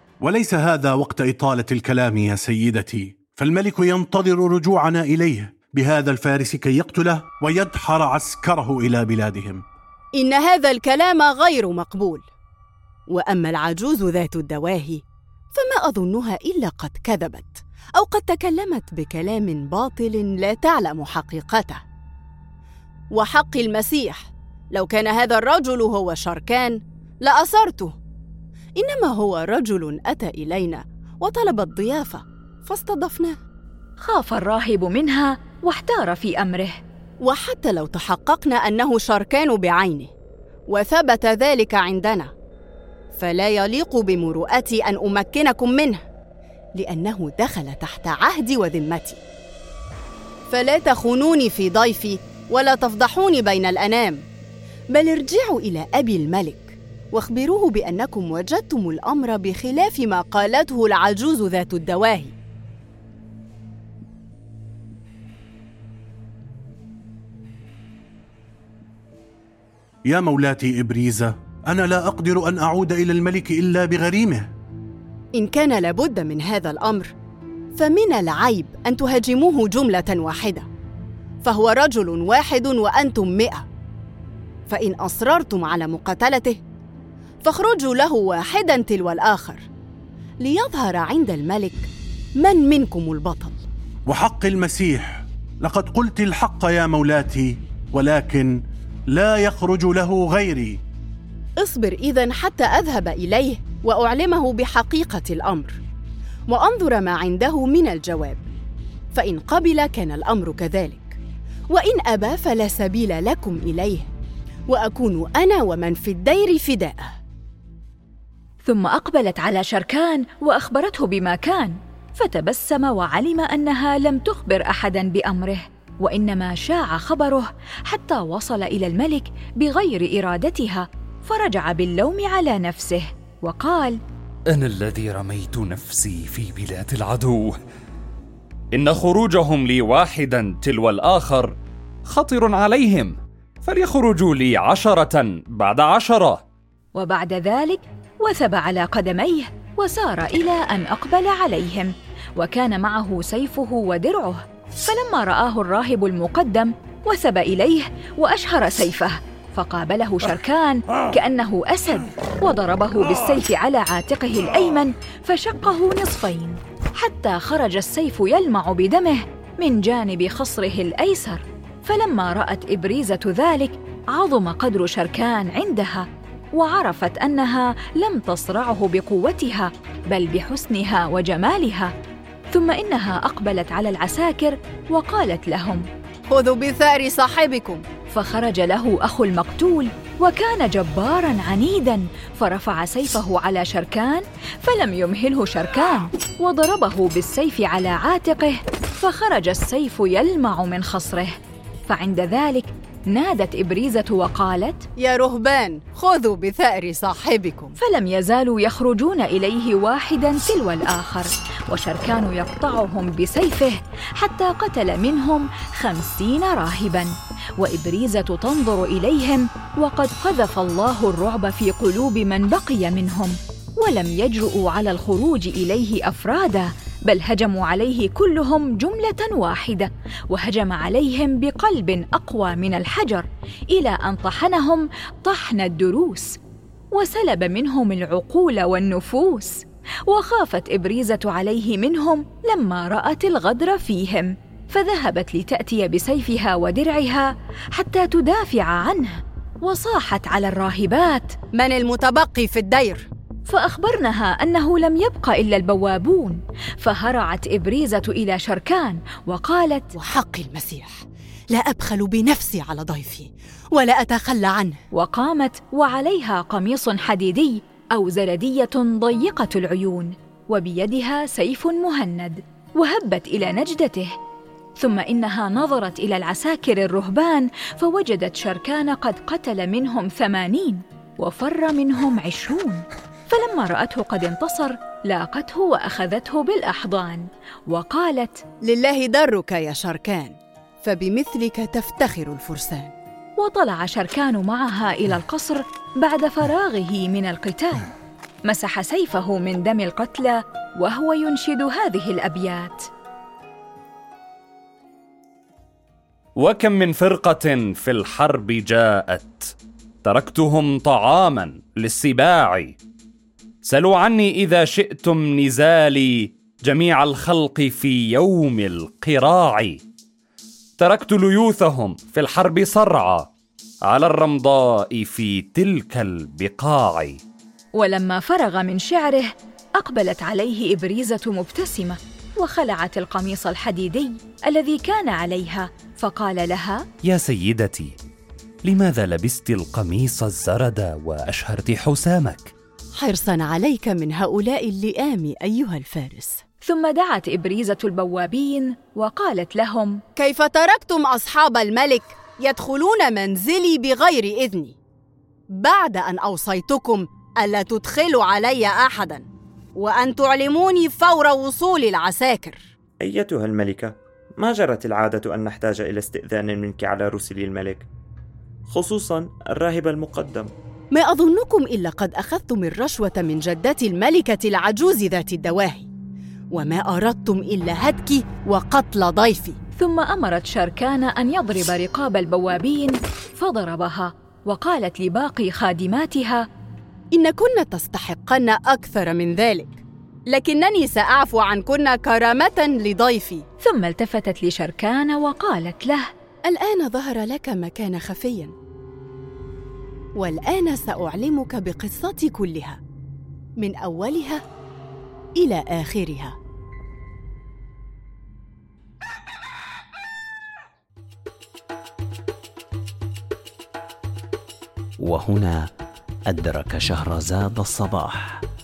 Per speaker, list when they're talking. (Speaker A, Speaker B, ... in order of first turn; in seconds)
Speaker A: 0.2-9.6, 70.1-74.5, 94.1-98.6, 99.1-100.8
Speaker B: 10.1-12.2, 13.1-15.0, 15.5-21.8, 23.1-27.9, 28.8-33.4, 37.2-40.1, 40.7-42.3, 43.2-46.0, 46.8-49.2, 50.5-54.2, 54.9-62.3, 75.3-77.1, 77.8-80.7, 81.4-83.7, 84.7-86.6, 87.4-89.6, 90.4-93.7, 101.6-105.8, 106.5-108.5, 109.1-111.2, 111.7-114.1, 114.7-117.1, 186.3-187.8, 205.0-207.8, 251.6-253.1, 259.9-261.0, 261.5-264.8, 288.6-292.9, 343.0-346.4, 350.1-354.7, 355.6-362.6, 370.9-375.9, 376.5-379.6, 387.1-393.4, 396.5-398.5, 400.2-402.8, 403.6-404.4, 405.4-406.4
Speaker C: 34.0-36.8, 118.6-134.0, 146.9-181.9, 182.5-185.8, 188.1-204.8, 207.8-236.3, 236.9-251.3, 253.5-259.9, 264.9-274.1, 274.8-288.4, 293.4-297.9, 298.4-302.9, 327.7-336.8, 346.6-350.0, 379.8-386.4, 393.6-396.1
Speaker D: 134.5-137.5, 138.7-141.5, 142.1-146.4, 306.4-309.5, 310.0-312.7, 313.6-319.8, 320.8-323.3, 323.9-327.2, 337.0-337.9, 338.7-342.5
Speaker E: 363.0-367.9, 368.7-370.5
Speaker F: 415.0-415.7, 416.3-418.4